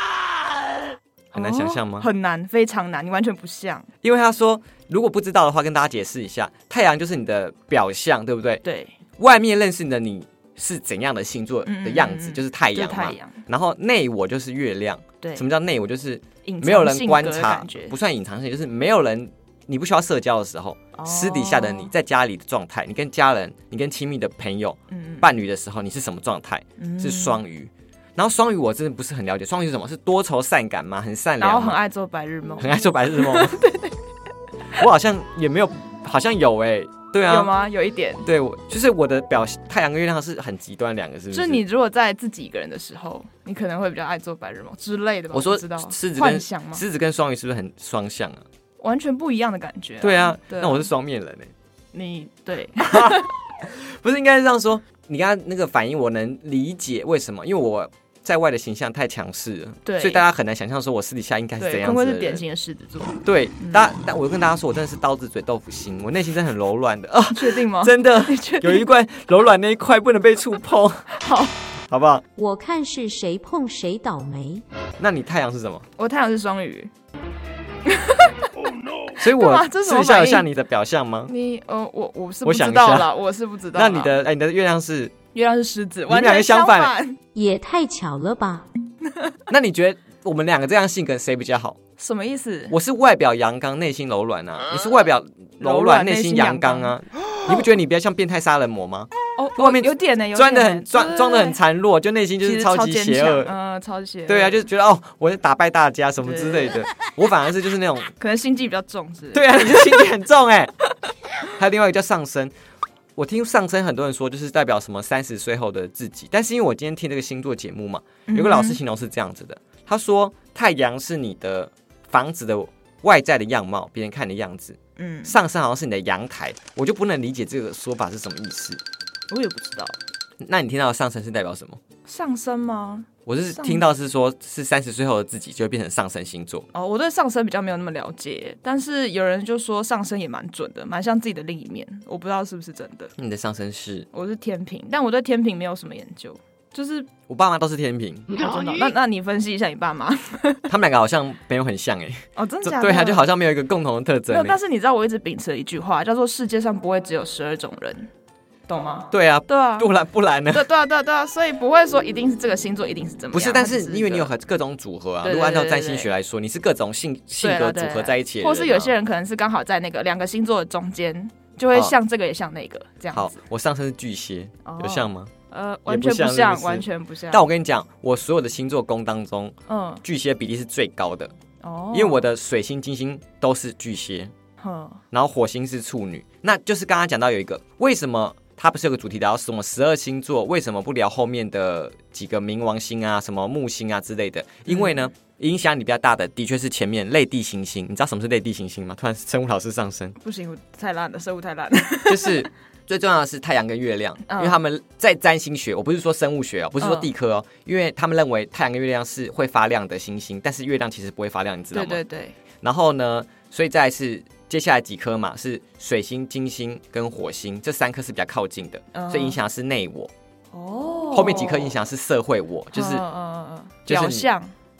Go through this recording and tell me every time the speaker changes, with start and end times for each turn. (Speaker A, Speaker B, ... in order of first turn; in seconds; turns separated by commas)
Speaker A: 1.3-2.1, Speaker B: 1.3-3.9, Speaker A: 4.0-8.6, Speaker B: 8.6-8.9, Speaker A: 9.2-31.8, Speaker B: 11.6-13.4, Speaker B: 16.4-17.9, Speaker B: 20.9-21.9, Speaker B: 24.9-25.3, Speaker B: 26.8-27.4, Speaker B: 31.4-33.9, Speaker A: 32.6-33.6, Speaker A: 34.8-37.5, Speaker B: 37.2-38.2, Speaker A: 38.2-41.6, Speaker B: 41.3-46.8, Speaker A: 45.3-48.4, Speaker B: 48.8-50.9, Speaker A: 50.0-51.5, Speaker B: 51.9-53.3, Speaker A: 52.8-62.4, Speaker B: 59.8-60.2, Speaker B: 61.6-63.9, Speaker A: 63.2-71.1, Speaker B: 67.3-68.9, Speaker B: 71.1-71.5, Speaker A: 71.9-72.2, Speaker C: 72.3-74.6, Speaker A: 75.0-75.8, Speaker B: 76.0-76.9, Speaker B: 77.8-78.5, Speaker B: 79.2-80.5, Speaker A: 79.2-81.3, Speaker B: 81.3-84.1, Speaker A: 82.4-83.1, Speaker A: 83.7-85.1, Speaker B: 85.3-87.2, Speaker A: 86.1-86.9, Speaker C: 87.3-88.7, Speaker A: 89.5-91.8, Speaker B: 92.0-92.7, Speaker A: 92.7-103.5, Speaker B: 95.6-96.9, Speaker B: 99.4-101.6, Speaker B: 102.4-104.6, Speaker A: 104.3-108.1, Speaker B: 106.2-106.8, Speaker B: 108.2-110.1, Speaker A: 109.3-110.7, Speaker A: 111.5-112.5, Speaker A: 113.2-128.8, Speaker B: 118.3-118.8, Speaker B: 125.0-125.3, Speaker B: 129.3-129.9, Speaker A: 130.4-131.8, Speaker B: 132.1-133.8, Speaker A: 133.2-136.7, Speaker B: 136.7-143.1, Speaker A: 143.2-144.1, Speaker B: 144.1-147.1, Speaker A: 147.3-148.4, Speaker B: 148.3-150.7, Speaker A: 150.7-154.6, Speaker B: 152.4-153.3, Speaker B: 154.3-158.1, Speaker B: 158.7-159.9, Speaker A: 159.1-160.6, Speaker B: 160.5-164.3, Speaker A: 163.3-168.9, Speaker B: 165.2-166.1, Speaker B: 167.4-173.3, Speaker A: 173.1-175.3, Speaker B: 174.6-177.4, Speaker A: 175.9-181.3, Speaker B: 179.7-180.0, Speaker B: 181.6-182.2, Speaker A: 181.9-184.3, Speaker B: 184.6-185.0, Speaker A: 185.1-200.2, Speaker B: 194.7-195.0, Speaker B: 200.2-202.5, Speaker A: 202.1-212.0, Speaker B: 204.3-204.6, Speaker B: 206.8-207.1, Speaker B: 211.7-212.3, Speaker A: 212.6-220.1, Speaker B: 218.9-219.4, Speaker B: 220.5-221.7, Speaker A: 221.1-223.0, Speaker B: 222.7-224.5, Speaker A: 223.9-224.3